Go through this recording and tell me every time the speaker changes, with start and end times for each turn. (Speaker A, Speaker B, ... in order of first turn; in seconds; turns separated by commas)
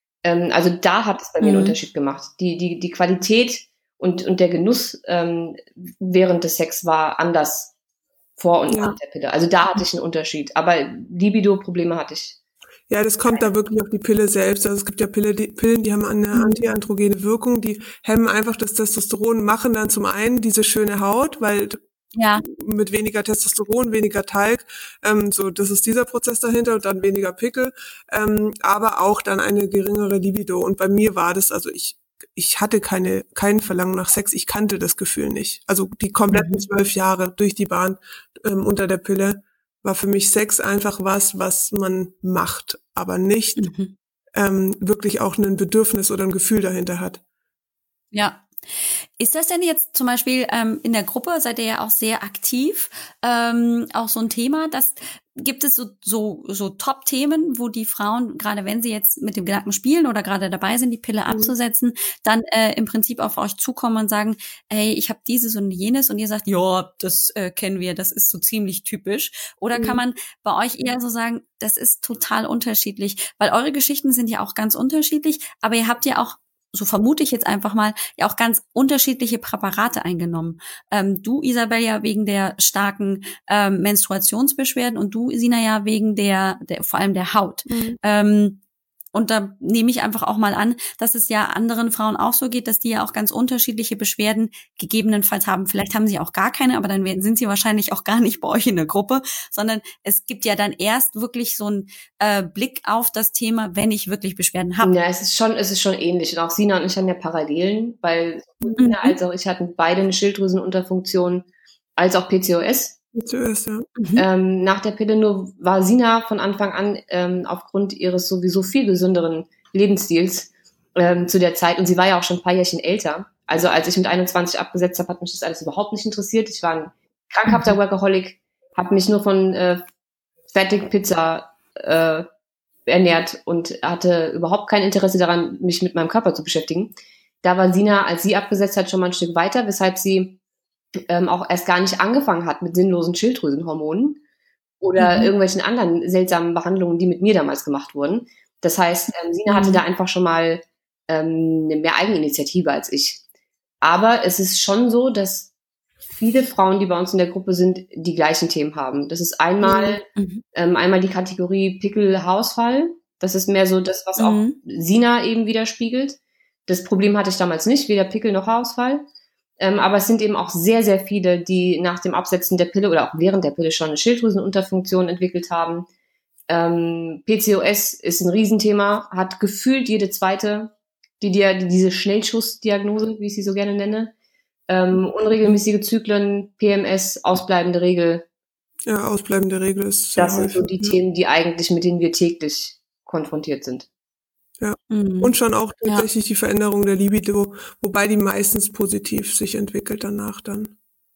Speaker A: 0.2-7.7, Speaker B: 1.4-1.8, Speaker A: 8.4-12.4, Speaker C: 8.7-9.0, Speaker C: 12.9-21.8, Speaker B: 16.3-16.6, Speaker B: 22.1-22.5, Speaker C: 22.5-43.7, Speaker B: 36.3-36.6, Speaker B: 43.6-44.0, Speaker C: 44.4-47.2, Speaker B: 48.1-48.5, Speaker B: 49.2-88.6, Speaker C: 69.8-70.0, Speaker C: 87.7-88.0, Speaker B: 89.1-104.9, Speaker A: 104.8-113.0, Speaker B: 108.8-109.2, Speaker C: 113.1-113.9, Speaker B: 114.0-114.2, Speaker A: 114.2-129.8, Speaker B: 127.5-127.8, Speaker A: 130.5-132.3, Speaker A: 132.9-140.4, Speaker A: 141.1-144.2, Speaker A: 144.8-153.2, Speaker B: 145.0-145.3, Speaker B: 149.5-149.8, Speaker A: 153.8-155.5, Speaker A: 156.2-169.1, Speaker B: 159.6-160.4, Speaker B: 164.2-164.6, Speaker A: 169.6-175.9, Speaker A: 176.5-184.1, Speaker A: 184.7-188.3, Speaker C: 188.9-191.0, Speaker A: 190.2-193.9, Speaker C: 194.6-200.8, Speaker B: 194.9-196.1